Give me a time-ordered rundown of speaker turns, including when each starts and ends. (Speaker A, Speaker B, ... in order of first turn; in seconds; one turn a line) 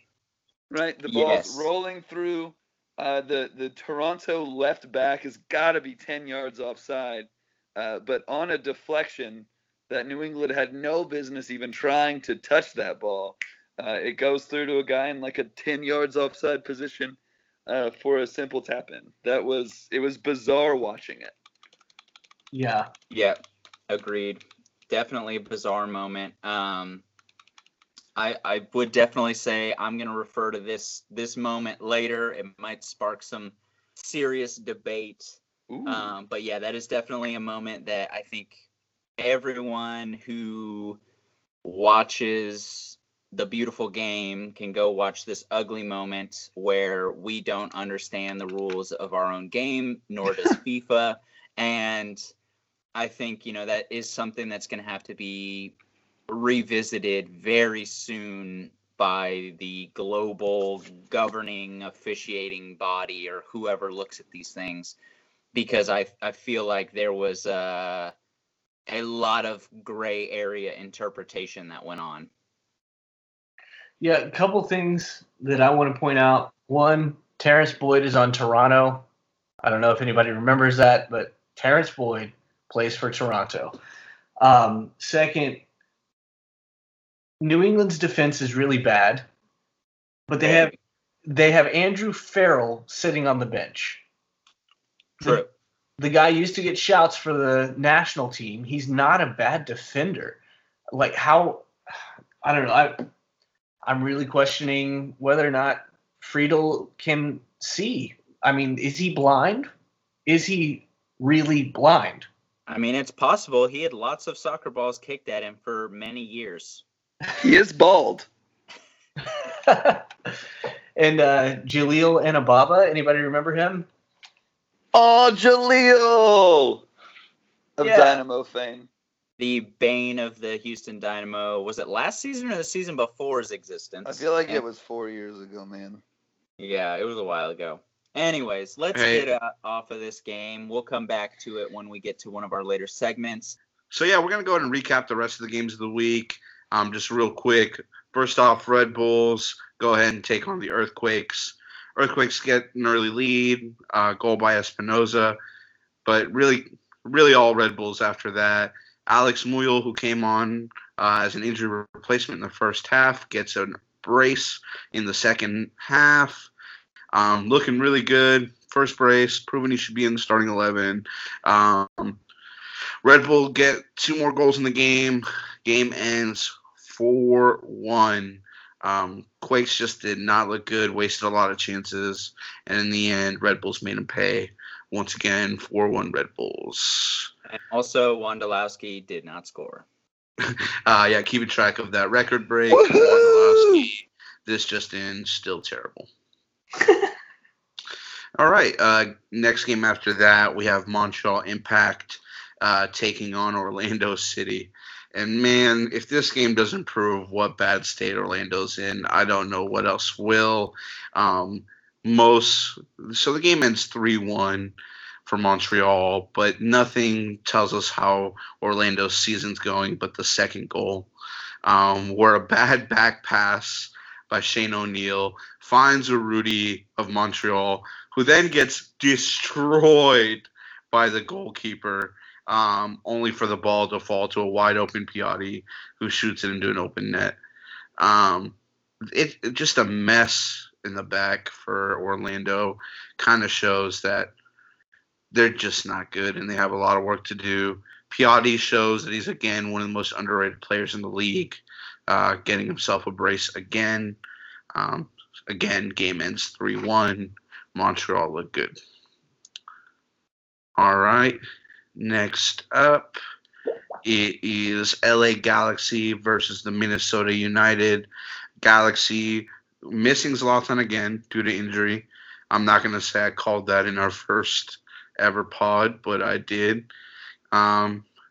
Speaker A: 0.7-21.3
Speaker B: 1.1-1.7
Speaker C: 22.5-22.9
Speaker B: 23.1-23.4
Speaker B: 23.9-27.0
Speaker B: 28.2-38.7
Speaker A: 35.7-36.1
Speaker B: 39.2-41.0
Speaker B: 41.6-52.2
Speaker B: 53.0-55.8
Speaker B: 56.3-65.0
Speaker B: 65.5-68.1
Speaker B: 68.9-72.3
Speaker C: 74.0-79.0
Speaker C: 79.6-83.7
Speaker C: 84.4-85.6
Speaker C: 87.4-89.2
Speaker C: 90.3-90.7
Speaker B: 90.4-90.8
Speaker C: 91.2-94.0
Speaker B: 95.2-95.5
Speaker C: 96.0-100.4
Speaker C: 100.9-101.7
Speaker C: 102.4-103.1
Speaker C: 103.8-109.7
Speaker C: 110.3-112.3
Speaker B: 112.7-116.8
Speaker A: 117.4-118.3
Speaker C: 119.5-120.3
Speaker C: 121.0-123.9
Speaker A: 124.9-126.9
Speaker A: 127.8-128.9
Speaker C: 127.8-128.2
Speaker B: 129.4-134.6
Speaker A: 134.1-136.0
Speaker B: 136.6-143.6
Speaker D: 138.9-139.3
Speaker D: 143.9-155.4
Speaker D: 156.1-166.5
Speaker D: 167.1-172.2
Speaker D: 173.0-187.3
Speaker B: 187.5-189.9
Speaker D: 190.4-196.1
Speaker A: 192.7-193.9
Speaker D: 198.4-214.8
Speaker D: 215.3-221.1
Speaker D: 221.7-237.4
Speaker D: 238.0-238.6
Speaker D: 239.1-244.3
Speaker D: 245.3-254.2
Speaker D: 254.7-258.8
Speaker D: 260.8-261.4
Speaker D: 262.0-263.2
Speaker D: 264.0-268.1
Speaker D: 268.6-276.9
Speaker D: 277.5-278.1